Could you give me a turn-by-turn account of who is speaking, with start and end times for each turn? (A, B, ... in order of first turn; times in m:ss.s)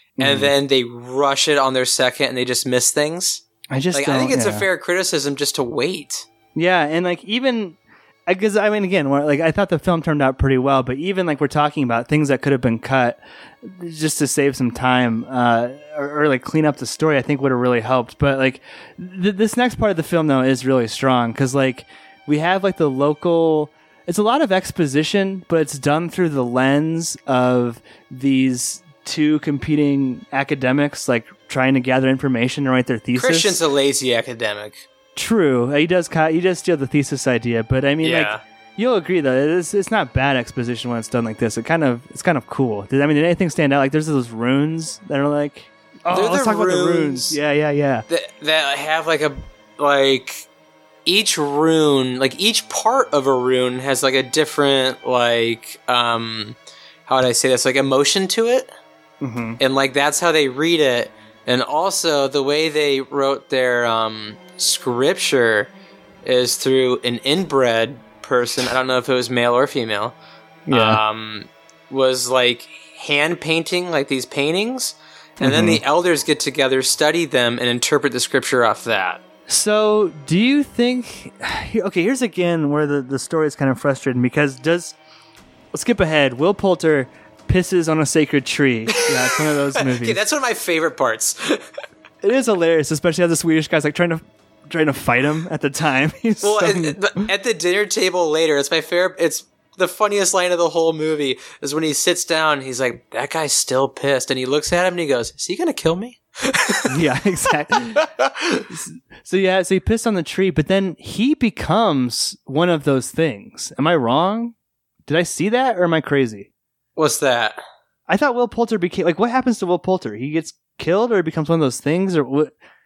0:00.2-0:00.5 A
0:00.2-0:06.3 B
0:03.7-0:04.6 A
0:06.6-0:33.6 A
0:33.1-0:34.9 B
0:35.2-0:48.1 A
0:38.0-0:38.4 B
0:46.1-0:47.4 B
0:48.1-0:50.5 B
0:51.0-0:58.7 B
0:59.2-0:59.6 A
0:59.6-1:05.7 B
1:06.2-1:10.1 B
1:10.7-1:11.0 A
1:10.7-1:19.2 B
1:15.4-1:15.8 A
1:19.5-1:25.0 A
1:25.7-1:30.2 A
1:29.8-1:31.6 B
1:32.2-1:37.2 A
1:36.4-1:47.0 B
1:46.9-1:48.1 A
1:48.0-1:48.6 B
1:48.7-1:54.5 A
1:55.1-1:56.5 A
1:57.0-1:57.6 B
1:58.1-2:02.5 A